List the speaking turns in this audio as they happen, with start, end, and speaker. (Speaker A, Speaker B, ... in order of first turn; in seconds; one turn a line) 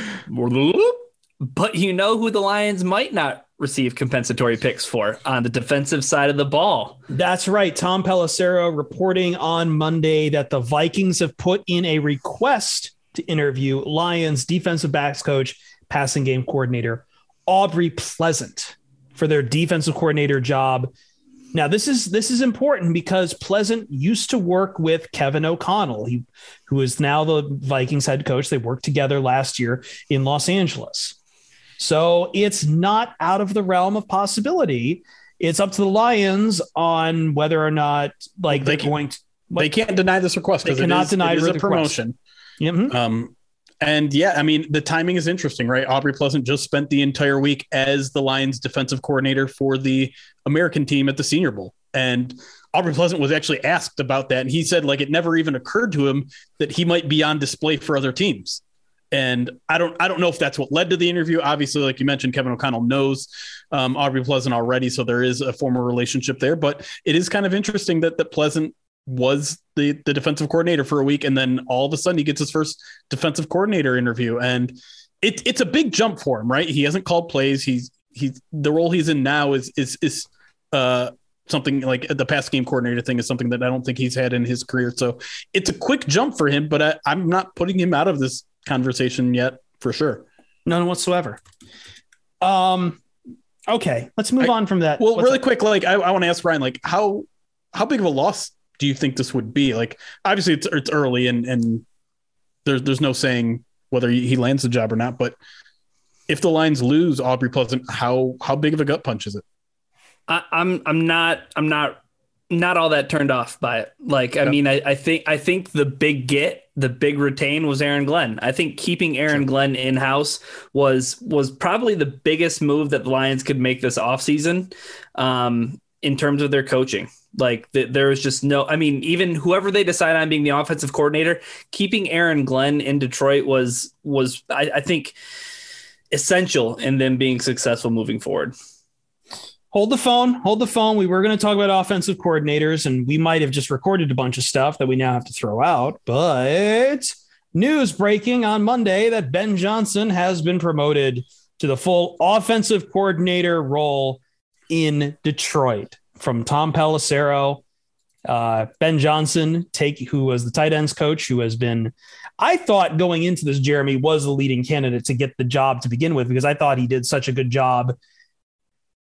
Speaker A: 0.3-7.0
Speaker B: 7.1-20.9
Speaker B: 21.5-31.2
Speaker B: 31.8-39.7
Speaker C: 38.5-38.9
Speaker C: 39.6-42.1
Speaker B: 40.6-42.0
Speaker B: 42.6-43.0
Speaker C: 42.9-90.2
Speaker B: 90.7-91.4
Speaker B: 92.4-93.0
Speaker B: 93.7-95.4
Speaker C: 95.0-101.8
Speaker C: 102.7-105.4
Speaker C: 106.3-109.4
Speaker A: 110.3-135.2
Speaker A: 136.1-138.5
Speaker B: 139.7-157.6
Speaker B: 158.2-168.0